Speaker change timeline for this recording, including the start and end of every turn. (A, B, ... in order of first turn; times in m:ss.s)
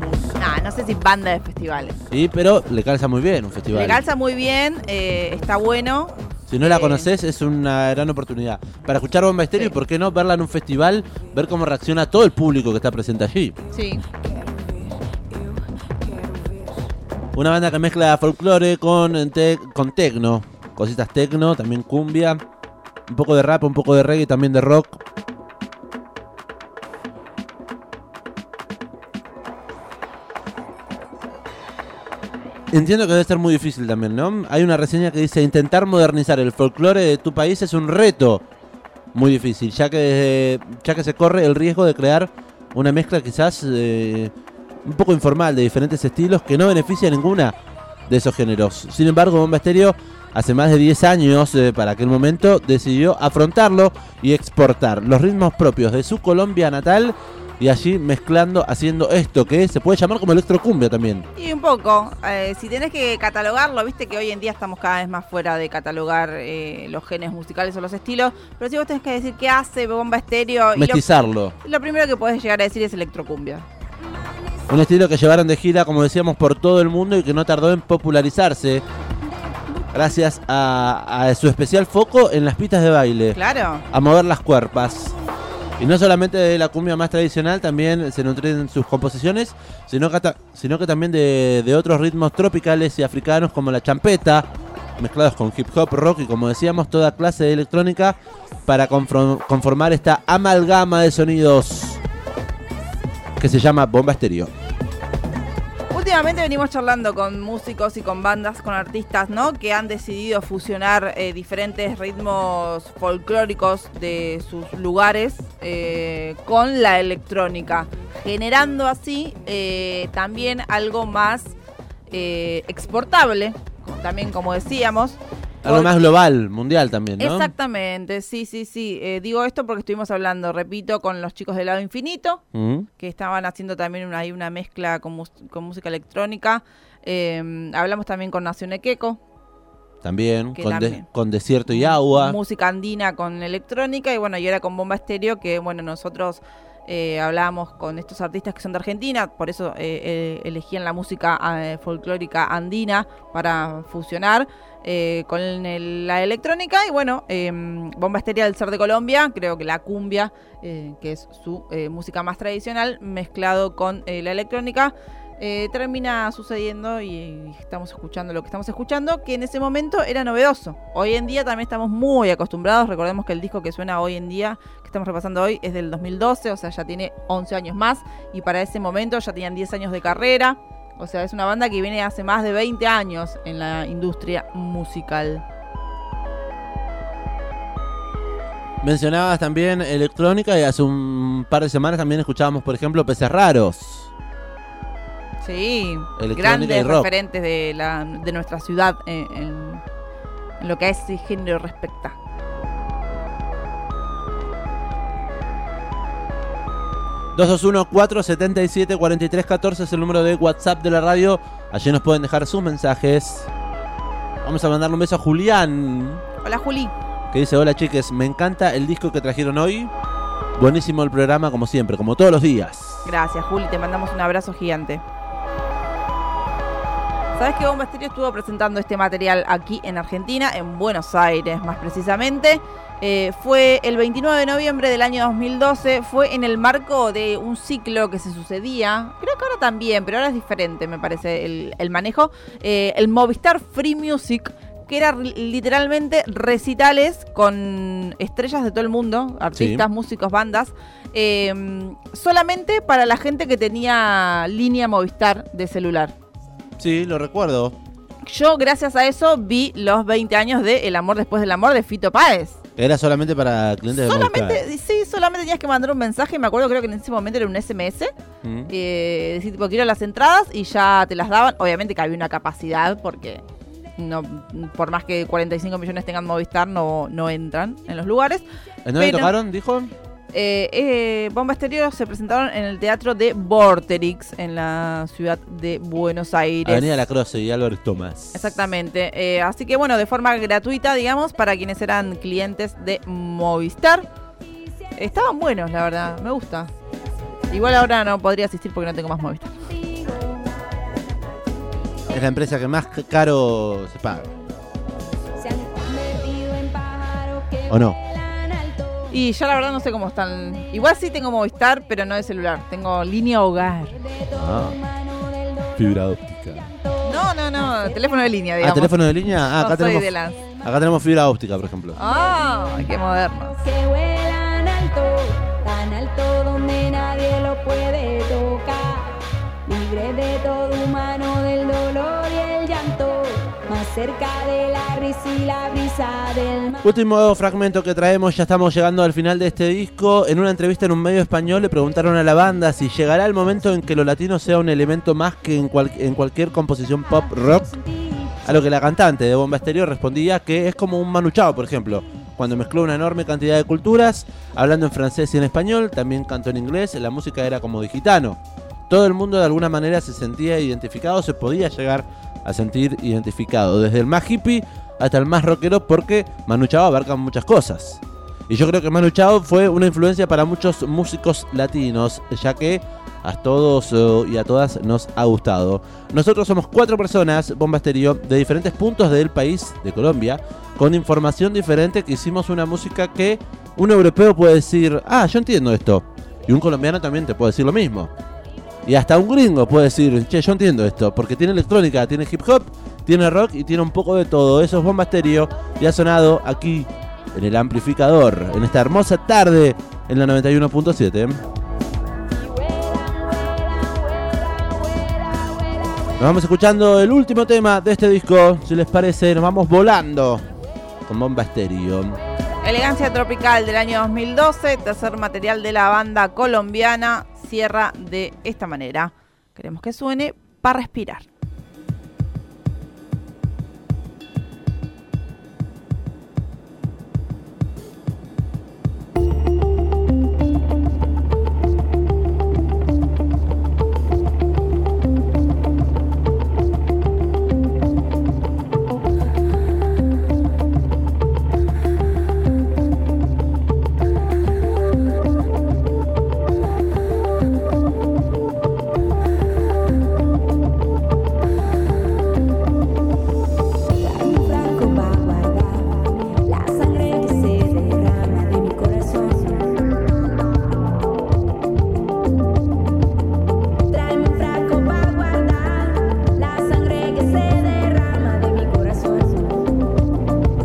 0:00.4-0:02.0 A
0:02.1-0:04.0 B
0:03.7-0:07.1 A
0:06.5-0:13.6 B
0:13.7-0:14.0 A
0:17.3-0:22.4 B
0:23.1-0:25.0 B
0:32.7-0:38.4 B
0:39.1-0:44.3 B
0:44.8-0:47.6 B
0:48.1-1:01.3 B
1:01.4-1:11.1 A
1:10.8-1:11.5 B
1:11.6-1:13.6 A
1:14.7-1:18.8 B
1:19.9-1:23.4 B
1:23.3-1:23.8 A
1:23.9-1:25.2 B
1:25.8-1:42.0 B
1:43.4-1:44.5 B
1:45.9-2:01.5 A
2:02.1-2:05.9 A
2:05.6-2:07.5 B
2:07.2-2:12.4 A
2:12.5-2:12.9 B
2:13.0-2:19.2 A
2:20.0-2:22.4 B
2:20.6-2:21.0 A
2:21.7-3:05.4 A
3:08.8-3:14.1 B
3:15.4-3:19.8 A
3:16.2-3:17.1 B
3:20.6-3:22.2 A
3:27.3-3:33.5 B
3:34.4-3:36.2 B
3:36.4-3:36.9 A
3:37.3-3:39.9 B
3:40.6-3:43.0 B
3:43.0-3:45.0 A
3:47.4-4:16.1 A
4:09.5-4:09.8 B
4:16.8-4:17.7 B
4:18.2-4:22.6 A
4:22.8-4:24.6 B
4:23.9-4:28.1 A
4:28.4-4:28.7 B
4:28.7-4:33.4 A
4:34.0-4:38.4 A
4:38.8-4:39.9 B
4:39.0-4:39.3 A
4:40.3-4:46.9 A
4:46.6-4:48.5 B
4:48.3-4:54.1 A
4:55.0-4:56.7 A
4:57.5-4:59.7 A
4:59.8-5:01.0 C
5:02.1-5:04.3 B
5:05.4-5:09.1 C
5:07.7-5:08.0 B
5:09.1-5:14.0 A
5:14.0-5:18.2 C
5:14.4-5:14.8 B
5:15.8-5:16.6 B
5:17.0-5:19.0 A
5:18.6-5:20.1 B
5:19.5-5:20.4 A
5:20.6-5:22.0 B
5:22.0-5:23.6 A
5:22.0-5:22.5 C
5:23.5-5:36.8 C
5:36.8-5:47.7 B
5:47.1-5:48.4 C
5:48.4-6:28.1 B
6:28.8-6:41.4 B
6:43.0-6:43.2 C
6:46.2-6:50.5 B
6:51.0-6:52.2 B
6:52.6-7:01.3 A
7:34.0-7:39.9 C
7:43.9-7:49.7 C